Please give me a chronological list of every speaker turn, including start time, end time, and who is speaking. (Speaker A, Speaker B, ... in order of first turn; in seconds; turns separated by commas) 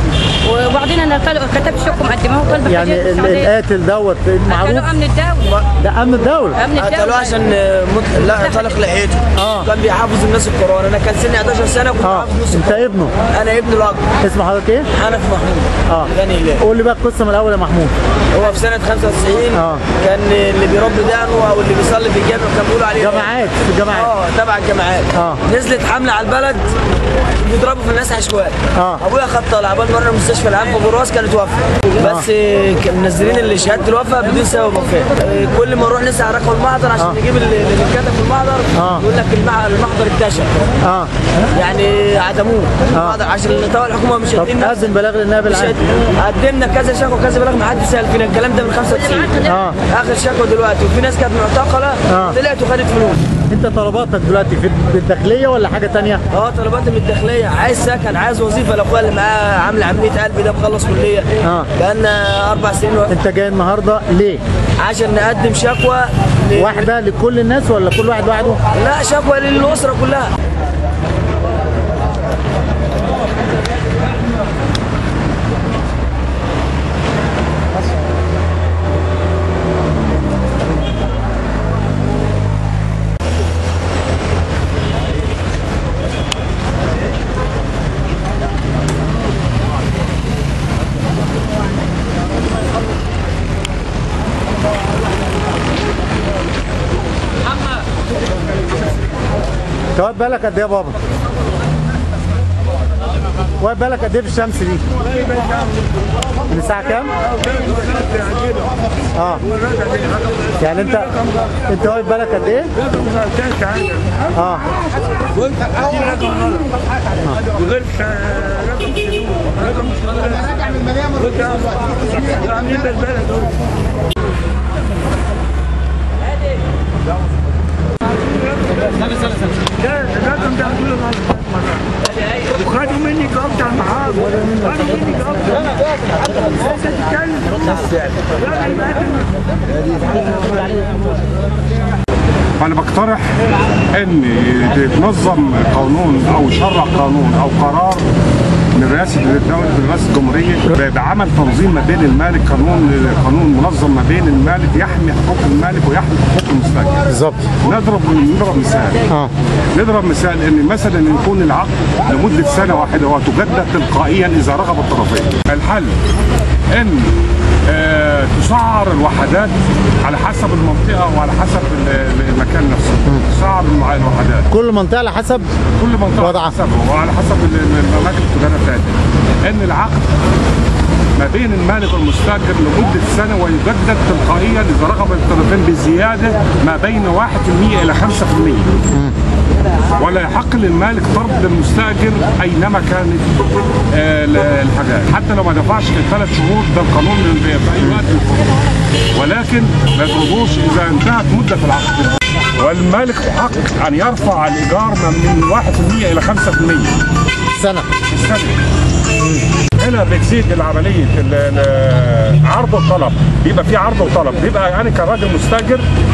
Speaker A: 0.4-3.4, Speaker B: 2.6-4.9, Speaker A: 4.6-5.4, Speaker B: 5.8-6.6, Speaker A: 6.6-6.9, Speaker C: 6.8-14.1, Speaker B: 9.4-9.7, Speaker B: 12.0-13.1, Speaker B: 14.2-14.9, Speaker C: 14.9-16.6, Speaker B: 15.9-17.9, Speaker C: 18.3-23.3, Speaker B: 19.5-19.8, Speaker B: 23.0-24.1, Speaker C: 23.9-26.7, Speaker B: 25.1-25.4, Speaker C: 27.4-40.5, Speaker B: 28.8-29.0, Speaker B: 38.8-39.0, Speaker B: 40.8-41.1, Speaker C: 41.5-44.9, Speaker B: 44.4-45.8, Speaker C: 45.5-53.2, Speaker B: 49.4-49.8, Speaker B: 52.1-52.3, Speaker B: 53.5-56.2, Speaker C: 56.3-63.1, Speaker B: 61.4-61.7, Speaker B: 63.1-64.4, Speaker C: 64.8-66.8, Speaker B: 66.5-68.6, Speaker C: 68.7-70.3, Speaker B: 99.9-101.0, Speaker B: 103.6-104.8, Speaker B: 106.5-107.1, Speaker D: 108.2-108.5, Speaker B: 109.1-109.4, Speaker B: 110.5-112.7, Speaker D: 113.1-114.0, Speaker B: 114.3-114.7, Speaker D: 117.8-118.6, Speaker D: 122.3-123.3, Speaker D: 130.0-131.6, Speaker D: 132.7-135.5, Speaker D: 142.6-148.1, Speaker D: 148.7-159.0, Speaker B: 157.1-157.4, Speaker D: 159.7-166.0, Speaker D: 166.7-167.1, Speaker D: 167.7-174.5, Speaker B: 174.5-175.5, Speaker D: 175.7-180.0, Speaker B: 176.2-176.5, Speaker D: 181.2-188.7, Speaker D: 189.9-193.4, Speaker D: 193.9-198.5, Speaker D: 199.1-206.9, Speaker B: 207.5-207.9, Speaker D: 208.0-208.6, Speaker D: 209.7-215.9